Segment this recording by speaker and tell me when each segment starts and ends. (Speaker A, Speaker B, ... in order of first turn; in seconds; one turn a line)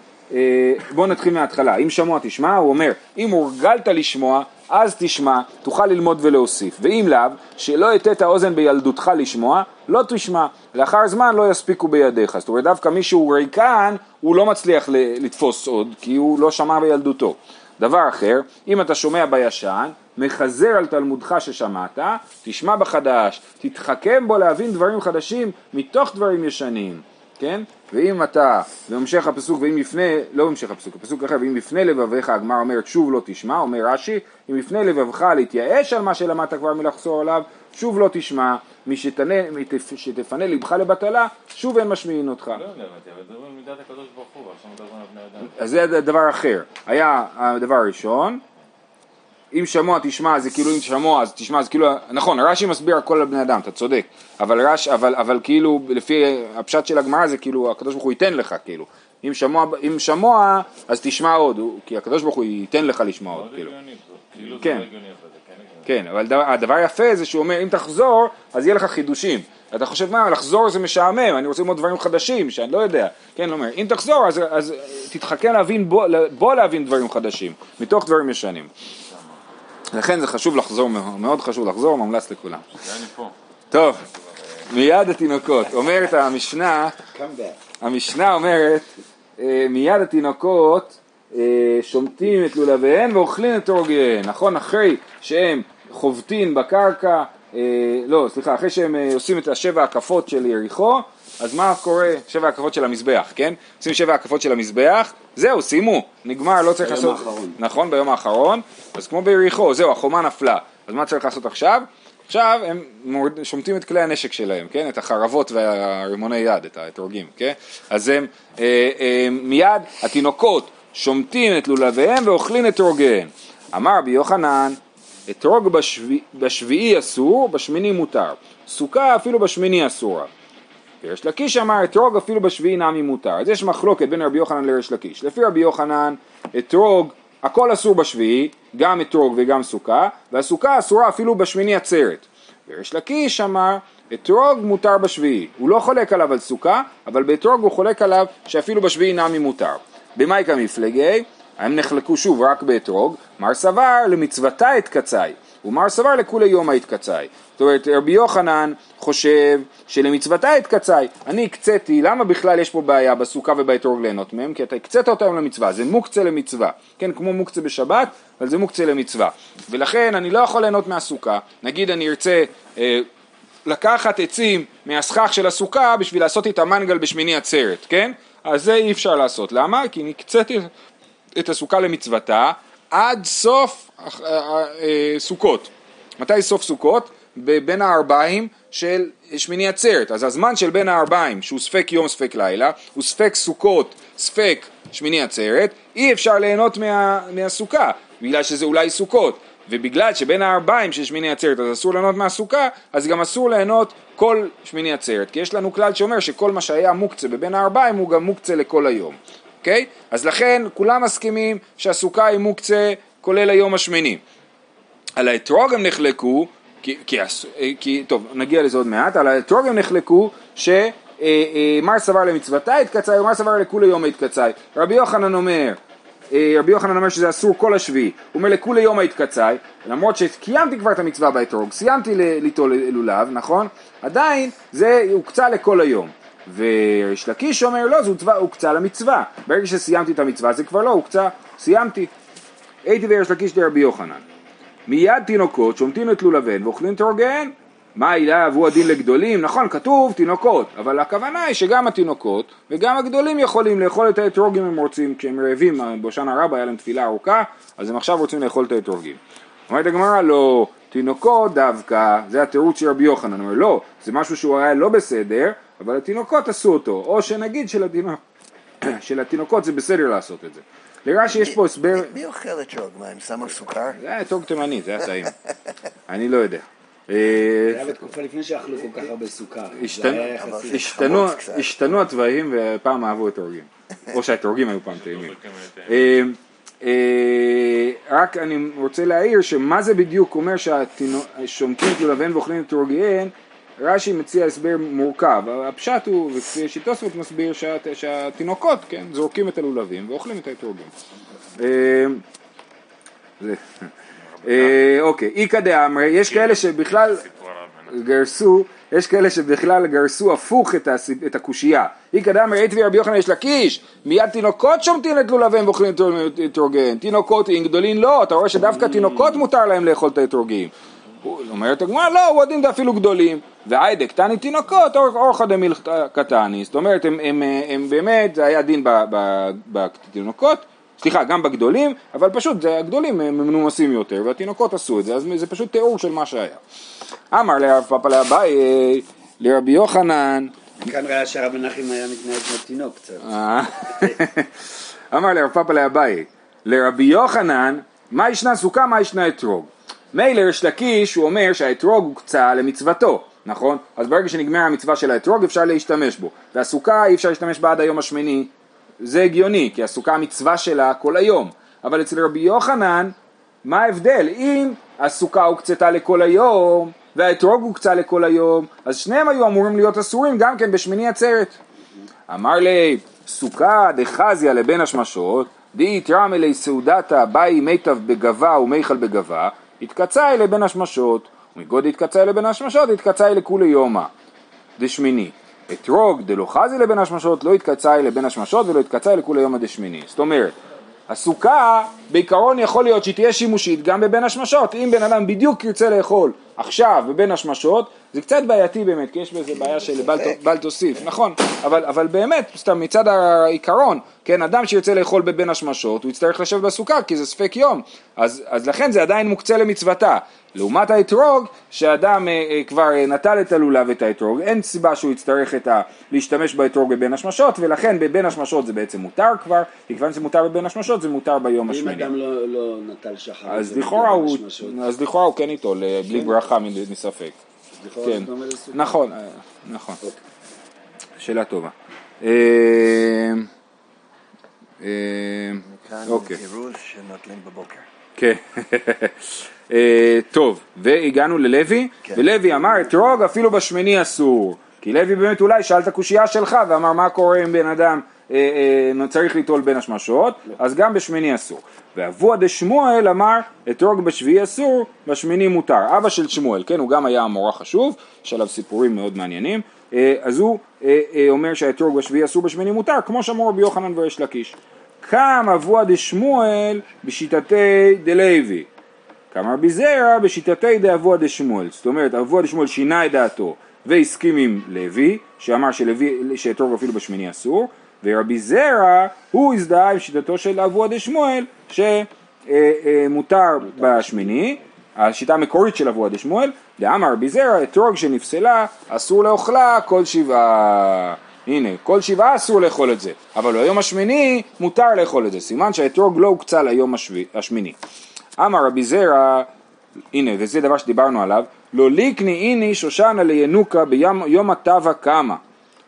Speaker A: 0.3-42.6
Speaker B: 42.5-45.5
Speaker A: 45.5-48.4
Speaker A: 49.5-63.7
Speaker B: 63.3-65.9
Speaker A: 64.4-64.9
Speaker A: 65.8-78.7
Speaker A: 79.9-82.8
Speaker B: 82.8-83.3
Speaker A: 83.7-84.0
Speaker A: 84.7-87.0
Speaker C: 87.1-87.6
Speaker A: 87.8-88.9
Speaker A: 89.4-130.3
Speaker C: 106.8-107.6
Speaker A: 131.0-173.1
Speaker A: 173.7-180.7
Speaker A: 181.3-214.2
Speaker A: 215.2-225.8
Speaker A: 226.3-242.1
Speaker A: 242.8-244.2
Speaker A: 244.9-268.2
Speaker A: 268.8-272.1
Speaker D: 271.3-274.0
Speaker A: 274.0-275.3
Speaker A: 276.1-277.9
Speaker C: 277.7-280.9
Speaker A: 279.8-285.4
Speaker D: 280.3-282.0
Speaker B: 284.9-286.1
Speaker A: 285.9-300.9
Speaker A: 301.6-302.2
Speaker A: 304.4-307.2
Speaker B: 306.3-307.9
Speaker A: 307.9-320.7
Speaker A: 321.2-336.6
Speaker A: 337.3-340.5
Speaker C: 340.8-343.2
Speaker A: 343.2-371.6
Speaker A: 372.3-384.1
Speaker A: 384.8-390.6
Speaker A: 391.1-422.1
Speaker D: 399.6-400.4
Speaker C: 421.7-424.8
Speaker A: 423.4-427.4
Speaker C: 427.8-428.8
Speaker A: 428.0-430.0
Speaker A: 431.2-433.5
Speaker A: 434.8-436.4
Speaker D: 435.6-437.8
Speaker A: 438.2-468.7
Speaker D: 442.0-443.0
Speaker A: 469.3-497.8
Speaker C: 483.7-484.4
Speaker A: 498.4-499.5
Speaker A: 500.1-505.4